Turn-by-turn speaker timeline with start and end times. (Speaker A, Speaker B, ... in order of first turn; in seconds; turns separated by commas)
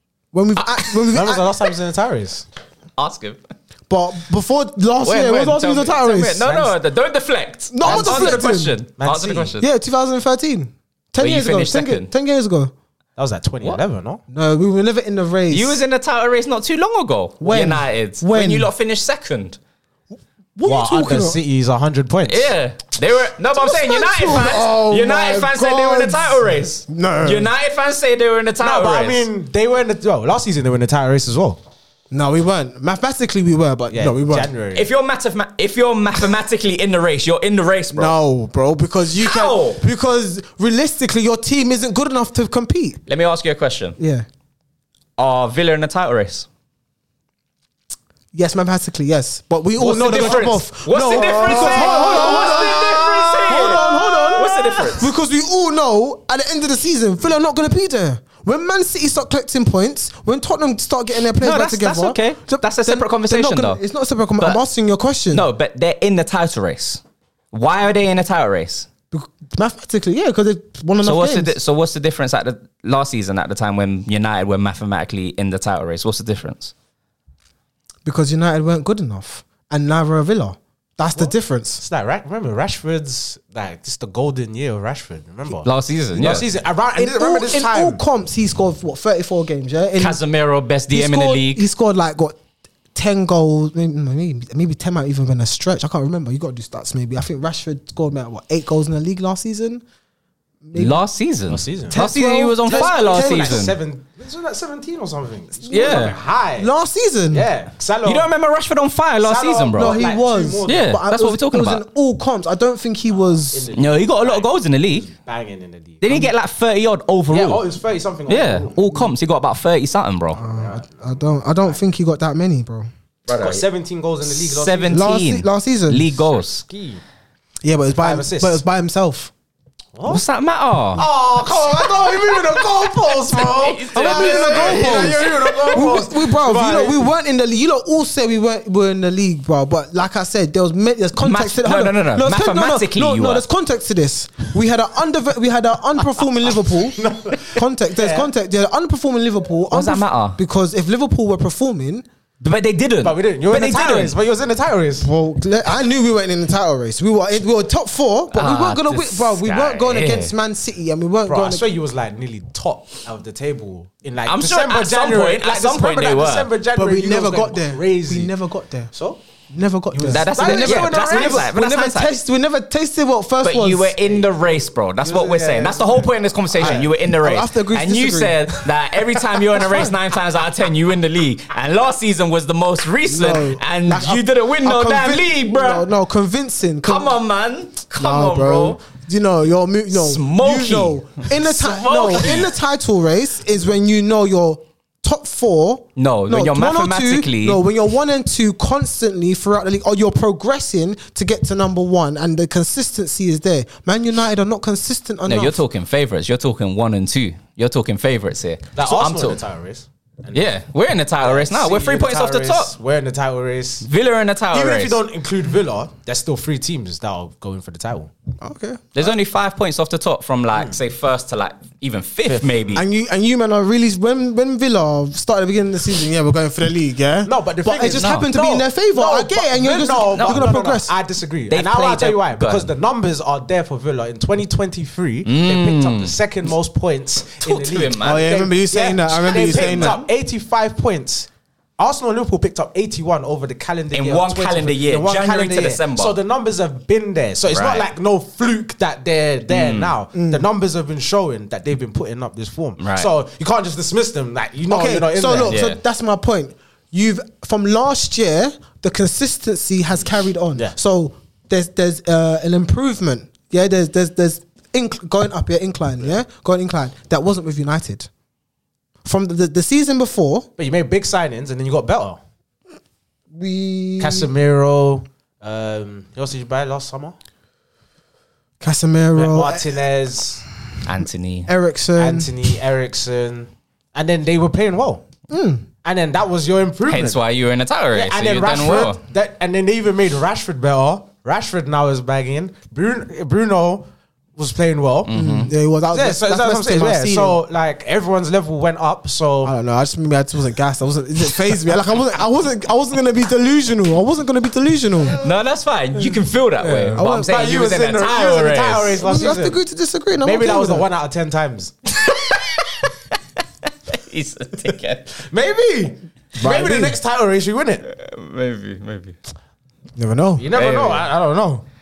Speaker A: 0.3-1.5, Speaker B: 0.6-1.0, Speaker C: 1.1-2.5, Speaker B: 3.0-3.4, Speaker A: 3.9-6.4, Speaker B: 5.0-9.7, Speaker C: 6.4-6.7, Speaker A: 7.7-8.7, Speaker C: 7.8-9.5, Speaker A: 9.6-12.7, Speaker B: 11.2-12.1, Speaker C: 13.2-14.2, Speaker A: 14.3-15.8, Speaker B: 15.5-19.6, Speaker A: 17.4-18.7, Speaker A: 20.6-21.4, Speaker C: 20.6-22.5, Speaker B: 22.3-29.2, Speaker A: 23.6-27.5, Speaker C: 28.6-31.6, Speaker A: 32.1-34.5, Speaker C: 33.9-34.9, Speaker B: 34.7-38.1, Speaker A: 37.9-43.0, Speaker B: 39.2-39.8, Speaker B: 43.1-44.0, Speaker A: 44.0-44.2, Speaker B: 45.2-46.5, Speaker A: 48.3-65.5, Speaker C: 49.8-54.9, Speaker B: 49.8-55.1, Speaker B: 61.4-63.8, Speaker B: 65.3-68.9, Speaker A: 69.1-71.5, Speaker B: 71.0-76.7, Speaker A: 78.0-81.8, Speaker C: 81.1-88.0, Speaker B: 85.6-86.5, Speaker A: 87.0-90.2, Speaker B: 90.0-91.7, Speaker A: 90.9-92.4, Speaker A: 92.9-99.8, Speaker A: 100.6-101.0, Speaker B: 100.7-103.8, Speaker C: 101.5-102.0, Speaker A: 101.9-103.7, Speaker C: 102.7-106.7, Speaker B: 105.7-106.2, Speaker A: 105.7-106.0, Speaker A: 106.6-107.5, Speaker C: 107.3-108.3, Speaker B: 108.0-110.0, Speaker C: 109.2-110.9, Speaker A: 109.7-113.7, Speaker B: 110.6-111.8, Speaker C: 113.5-116.2, Speaker B: 113.8-115.1, Speaker B: 116.0-117.6, Speaker C: 117.3-119.0, Speaker B: 118.3-120.4, Speaker C: 120.3-121.1, Speaker A: 120.4-122.9, Speaker B: 123.3-123.6, Speaker C: 123.4-125.0, Speaker B: 124.2-126.6, Speaker A: 124.9-126.0, Speaker C: 126.3-127.0, Speaker A: 127.6-129.3, Speaker C: 128.0-128.6, Speaker C: 129.9-130.2, Speaker B: 130.1-131.1, Speaker C: 130.9-137.0, Speaker A: 131.6-133.4, Speaker B: 133.3-135.8, Speaker A: 133.9-152.0, Speaker B: 141.2-143.4, Speaker C: 146.9-148.3, Speaker B: 149.7-150.4, Speaker B: 152.4-154.1, Speaker C: 153.0-155.1, Speaker A: 155.0-161.6, Speaker B: 158.3-160.3, Speaker C: 161.3-168.3, Speaker B: 164.2-166.5, Speaker A: 166.7-168.9, Speaker C: 168.9-169.2, Speaker A: 169.5-173.9, Speaker C: 169.9-171.5, Speaker B: 170.1-172.1, Speaker B: 173.4-185.9, Speaker C: 175.0-176.9, Speaker A: 176.6-179.9, Speaker A: 183.1-187.2, Speaker B: 186.8-188.8, Speaker A: 188.0-205.6, Speaker B: 189.9-192.5, Speaker B: 195.9-197.6, Speaker B: 205.3-209.4, Speaker C: 208.7-210.6, Speaker B: 210.3-212.7, Speaker C: 211.2-213.9, Speaker B: 213.8-215.0, Speaker C: 214.5-218.1, Speaker A: 218.4-218.8, Speaker B: 218.9-222.8, Speaker C: 222.3-222.5, Speaker A: 222.7-230.9, Speaker C: 227.2-241.3, Speaker B: 227.9-228.3, Speaker B: 230.0-230.4, Speaker B: 231.5-232.7, Speaker B: 235.2-236.1, Speaker B: 237.4-238.3, Speaker A: 238.0-240.0, Speaker B: 239.2-240.1, Speaker C: 241.8-255.6, Speaker B: 243.9-246.2, Speaker B: 247.5-247.9, Speaker B: 249.5-249.9, Speaker A: 250.1-250.4, Speaker B: 252.8-253.1, Speaker A: 254.7-268.1, Speaker B: 255.5-255.8, Speaker A: 269.0-270.5, Speaker C: 270.6-272.2, Speaker A: 273.3-274.3, Speaker C: 274.0-277.1, Speaker A: 278.6-279.8, Speaker C: 279.1-280.4, Speaker B: 280.8-281.5, Speaker A: 281.5-282.5, Speaker C: 281.9-285.0, Speaker A: 285.3-285.6, Speaker C: 285.8-287.2, Speaker B: 286.9-289.0, Speaker C: 287.9-295.1, Speaker B: 295.1-295.5, Speaker A: 295.1-297.4, Speaker C: 295.9-299.5, Speaker A: 299.4-305.2, Speaker B: 305.1-309.0, Speaker C: 306.6-309.6, Speaker A: 306.9-307.3, Speaker A: 309.0-310.9, Speaker C: 310.2-311.7, Speaker B: 312.0-312.9, Speaker B: 313.9-315.2, Speaker C: 315.3-317.8, Speaker A: 316.4-317.0, Speaker B: 317.8-319.2, Speaker A: 319.9-320.5, Speaker C: 320.4-321.6, Speaker B: 320.5-321.1